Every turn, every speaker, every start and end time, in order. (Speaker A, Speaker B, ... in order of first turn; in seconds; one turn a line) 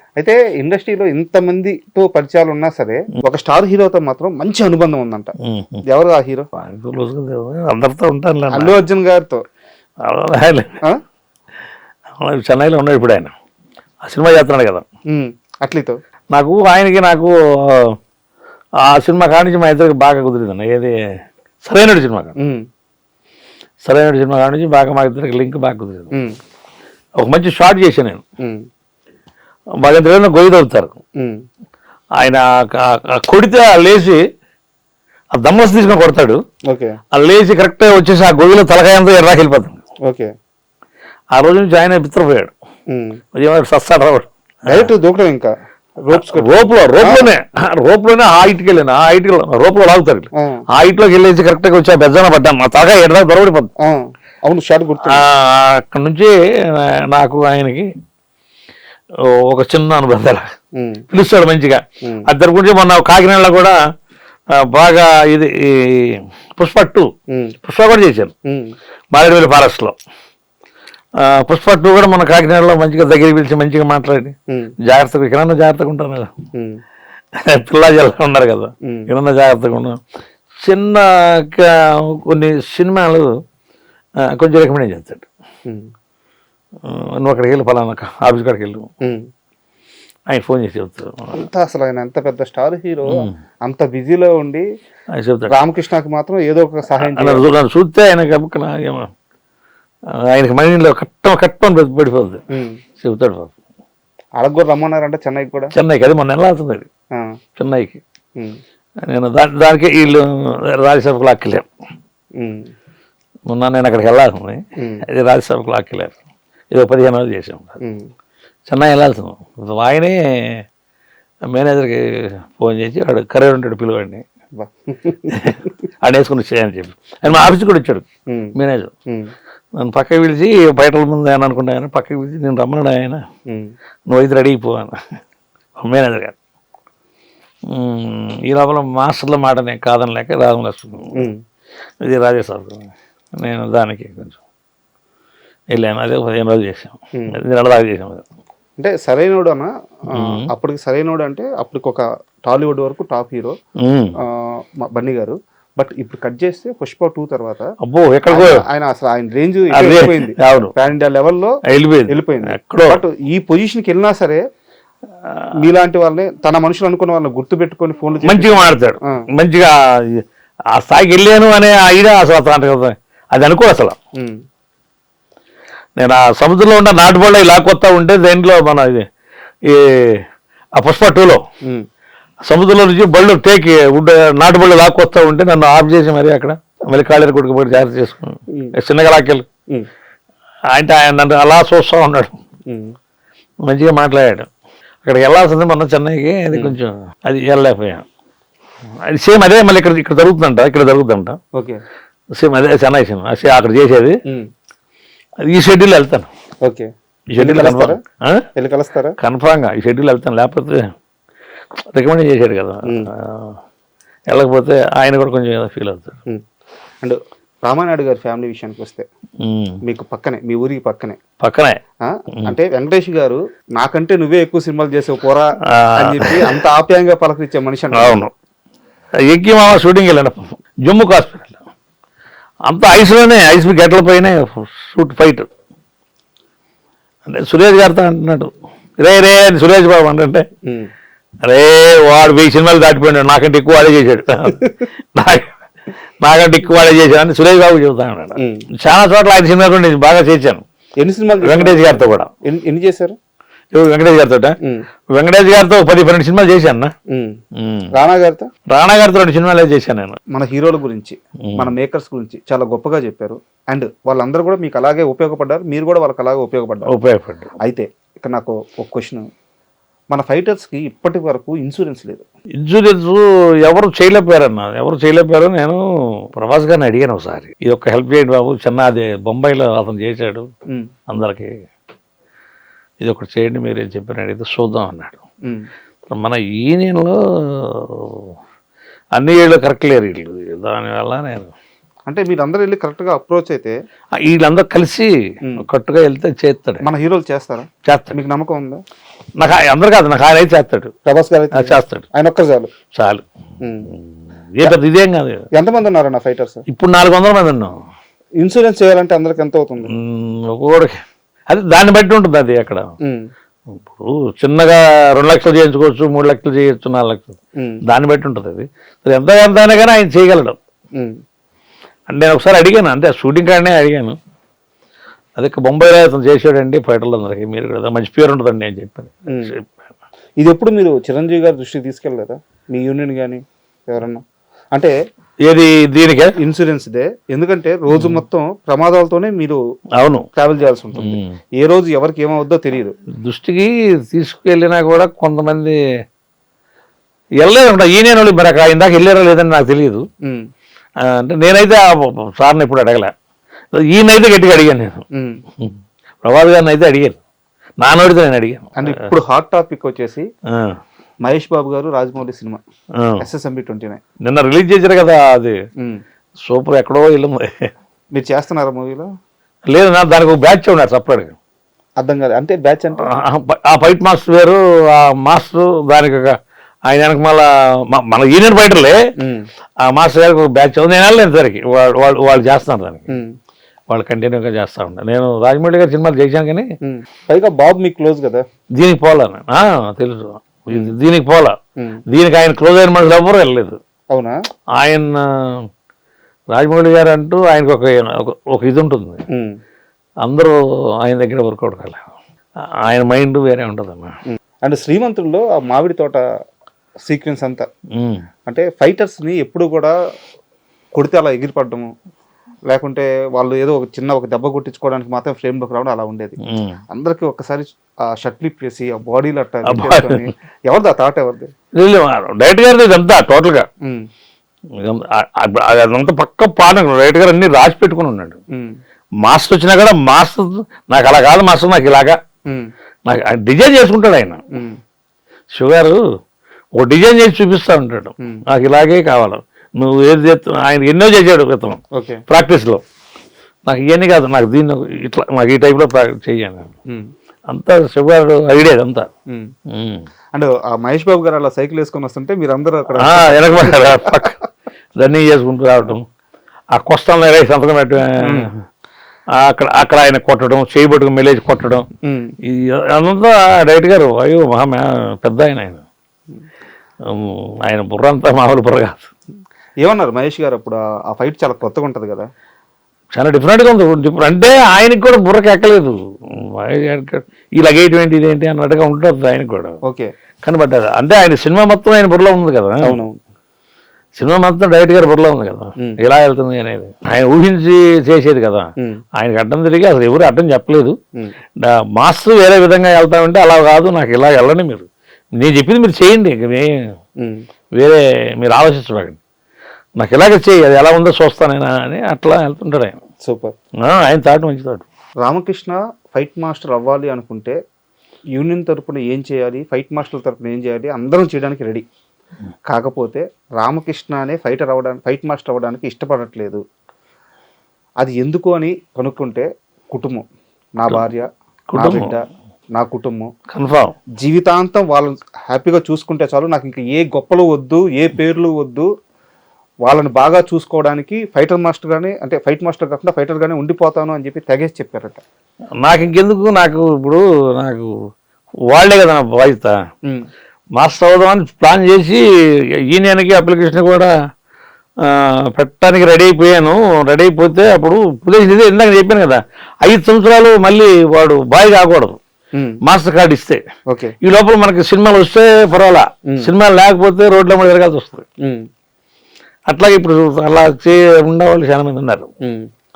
Speaker A: 0.2-6.4
Speaker B: 5.4-5.8
Speaker B: 6.6-8.8
Speaker A: 8.5-9.4
Speaker B: 10.0-10.7
Speaker B: 12.2-13.3
Speaker B: 14.0-14.8
Speaker A: 15.1-15.9
Speaker B: 16.3-18.0
Speaker B: 18.8-21.0
Speaker B: 21.6-22.3
Speaker A: 22.4-22.6
Speaker B: 23.8-26.1
Speaker B: 27.2-28.2
Speaker B: 29.8-31.0
Speaker A: 31.2-31.4
Speaker B: 32.1-34.2
Speaker B: 35.3-36.4
Speaker A: 36.7-37.0
Speaker B: 37.1-39.8
Speaker A: 40.0-40.3
Speaker B: 41.3-42.5
Speaker A: 42.9-43.2
Speaker B: 43.3-44.9
Speaker A: 44.7-45.5
Speaker A: 46.0-47.3
Speaker B: 46.1-53.7
Speaker A: 50.3-50.6
Speaker A: 53.8-55.2
Speaker B: 55.0-57.9
Speaker B: 59.2-60.4
Speaker A: 60.7-61.0
Speaker B: 61.1-63.8
Speaker A: 62.0-62.3
Speaker B: 64.5-67.1
Speaker A: 67.3-67.5
Speaker B: 67.6-68.3
Speaker A: 68.5-68.7
Speaker B: 69.1-70.0
Speaker B: 71.2-76.3
Speaker A: 74.5-74.7
Speaker A: 76.5-76.8
Speaker B: 77.3-80.0
Speaker A: 78.8-79.1
Speaker B: 80.6-83.3
Speaker B: 84.2-85.2
Speaker B: 86.8-88.9
Speaker B: 90.3-91.4
Speaker A: 91.3-94.6
Speaker B: 93.1-93.3
Speaker B: 95.1-95.5
Speaker A: 95.5-97.5
Speaker B: 97.0-99.1
Speaker B: 100.1-102.4
Speaker A: 102.5-102.8
Speaker B: 103.0-103.5
Speaker A: 104.4-105.7
Speaker B: 105.7-106.9
Speaker B: 107.6-108.0
Speaker B: 109.0-111.7
Speaker A: 112.4-112.7
Speaker B: 113.5-116.2
Speaker A: 114.8-115.0
Speaker B: 116.7-117.7
Speaker A: 117.8-118.1
Speaker B: 118.7-120.6
Speaker B: 121.5-124.2
Speaker A: 124.5-125.7
Speaker B: 125.3-128.0
Speaker A: 128.3-128.5
Speaker B: 128.6-128.9
Speaker B: 129.8-133.2
Speaker B: 134.1-135.0
Speaker B: 135.8-136.3
Speaker B: 137.7-141.3
Speaker A: 141.1-141.4
Speaker B: 142.0-144.4
Speaker B: 145.7-148.2
Speaker A: 147.1-147.4
Speaker A: 148.8-153.6
Speaker B: 150.1-150.4
Speaker B: 153.8-154.1
Speaker A: 154.2-157.7
Speaker B: 157.8-158.6
Speaker A: 158.3-161.5
Speaker B: 159.7-160.7
Speaker B: 161.7-163.0
Speaker A: 162.1-164.4
Speaker B: 165.2-165.6
Speaker A: 165.6-169.2
Speaker B: 168.2-174.0
Speaker B: 176.0-179.1
Speaker B: 179.6-180.2
Speaker B: 180.8-181.4
Speaker B: 182.4-189.5
Speaker A: 188.5-188.8
Speaker B: 190.7-192.3
Speaker A: 192.7-192.9
Speaker B: 193.6-194.5
Speaker B: 195.0-198.0
Speaker A: 196.5-196.8
Speaker B: 199.0-201.4
Speaker A: 201.5-201.8
Speaker B: 202.3-204.2
Speaker B: 205.4-206.3
Speaker A: 206.6-208.0
Speaker B: 207.3-208.5
Speaker A: 208.6-209.2
Speaker B: 209.2-210.9
Speaker B: 211.8-213.6
Speaker A: 212.8-213.1
Speaker B: 214.3-216.2
Speaker A: 217.0-219.0
Speaker B: 219.4-219.8
Speaker A: 219.8-221.2
Speaker B: 221.4-221.8
Speaker A: 222.0-228.3
Speaker B: 225.7-226.6
Speaker B: 227.9-228.3
Speaker B: 229.2-231.6
Speaker B: 232.7-235.5
Speaker B: 237.2-240.4
Speaker A: 240.6-240.9
Speaker B: 241.4-245.5
Speaker B: 246.2-250.6
Speaker A: 248.4-248.7
Speaker A: 251.0-253.1
Speaker B: 251.4-252.3
Speaker B: 253.7-254.6
Speaker B: 255.1-256.9
Speaker A: 257.1-257.4
Speaker B: 257.5-257.9
Speaker A: 257.9-258.5
Speaker B: 258.7-260.2
Speaker A: 260.3-266.9
Speaker B: 261.4-261.7
Speaker B: 266.9-267.5
Speaker A: 267.6-269.3
Speaker A: 270.1-272.2
Speaker B: 272.6-275.8
Speaker B: 276.3-280.5
Speaker B: 281.1-281.6
Speaker B: 283.0-285.2
Speaker B: 286.1-288.4
Speaker B: 289.1-291.5
Speaker A: 292.1-293.7
Speaker B: 294.2-296.8
Speaker A: 296.8-298.8
Speaker B: 297.8-298.2
Speaker B: 299.4-300.9
Speaker A: 301.1-302.7
Speaker B: 301.5-302.0
Speaker B: 302.9-303.2
Speaker A: 303.6-303.9
Speaker B: 303.9-305.4
Speaker A: 305.5-306.6
Speaker B: 306.7-307.8
Speaker A: 308.4-309.9
Speaker B: 309.9-312.9
Speaker A: 313.0-313.3
Speaker B: 313.7-317.3
Speaker A: 317.6-317.8
Speaker B: 317.9-320.6
Speaker B: 322.1-324.2
Speaker B: 325.4-329.7
Speaker A: 329.2-329.6
Speaker A: 330.4-334.9
Speaker B: 335.4-336.4
Speaker A: 336.4-339.6
Speaker B: 337.9-338.2
Speaker B: 339.9-340.2
Speaker A: 340.4-342.9
Speaker B: 341.0-341.4
Speaker B: 343.1-345.8
Speaker B: 347.4-350.0
Speaker B: 351.0-353.1
Speaker B: 353.7-355.0
Speaker A: 355.1-355.4
Speaker B: 355.6-357.2
Speaker B: 357.8-359.1
Speaker A: 358.8-360.2
Speaker B: 360.5-360.8
Speaker A: 361.2-362.6
Speaker B: 362.9-363.2
Speaker A: 363.2-364.0
Speaker B: 364.2-365.5
Speaker B: 366.4-367.7
Speaker A: 368.1-369.1
Speaker B: 369.7-371.4
Speaker A: 372.0-373.1
Speaker B: 373.0-379.0
Speaker A: 379.2-379.5
Speaker B: 379.8-383.2
Speaker A: 383.1-383.3
Speaker B: 383.9-386.7
Speaker A: 386.8-388.4
Speaker B: 388.7-391.6
Speaker A: 390.7-390.9
Speaker B: 392.1-393.8
Speaker B: 394.8-395.7
Speaker B: 396.5-399.2
Speaker A: 399.3-399.6
Speaker B: 400.2-402.1
Speaker B: 402.8-404.1
Speaker A: 404.3-406.2
Speaker A: 407.0-407.6
Speaker B: 407.9-408.2
Speaker A: 408.4-409.9
Speaker A: 410.9-411.9
Speaker A: 412.7-416.4
Speaker B: 416.4-416.8
Speaker A: 416.9-421.5
Speaker B: 419.7-420.3
Speaker B: 421.7-423.6
Speaker B: 424.7-428.4
Speaker B: 429.2-432.2
Speaker B: 433.1-434.4
Speaker A: 434.5-434.8
Speaker B: 435.5-436.0
Speaker B: 436.8-442.8
Speaker A: 441.9-442.2
Speaker B: 443.6-446.7
Speaker B: 447.5-449.1
Speaker B: 449.7-450.1
Speaker A: 450.3-454.2
Speaker B: 453.0-454.4
Speaker B: 454.9-456.1
Speaker B: 456.7-458.6
Speaker A: 458.2-458.5
Speaker B: 459.3-461.9
Speaker A: 462.0-462.3
Speaker B: 462.4-465.8
Speaker B: 467.0-469.1
Speaker A: 469.8-472.3
Speaker B: 473.1-479.8
Speaker B: 480.4-483.0
Speaker A: 482.8-483.2
Speaker B: 484.1-491.0
Speaker B: 491.6-496.9
Speaker A: 497.2-497.4
Speaker B: 497.7-499.2
Speaker B: 500.0-503.0
Speaker A: 503.2-503.5
Speaker B: 503.8-504.8
Speaker A: 505.2-507.6
Speaker A: 508.3-511.9
Speaker A: 512.7-516.6
Speaker A: 518.0-522.2
Speaker B: 521.7-522.1
Speaker A: 522.7-523.3
Speaker B: 523.5-523.9
Speaker A: 524.2-528.9
Speaker A: 529.8-535.2
Speaker B: 535.8-537.9
Speaker B: 538.7-539.7
Speaker B: 540.8-542.2
Speaker B: 542.9-544.1
Speaker B: 545.0-552.2
Speaker A: 552.5-552.8
Speaker B: 552.8-553.6
Speaker A: 553.9-554.1
Speaker B: 554.2-558.2
Speaker A: 556.3-556.5
Speaker A: 558.4-558.7
Speaker B: 559.7-562.3
Speaker A: 562.4-562.7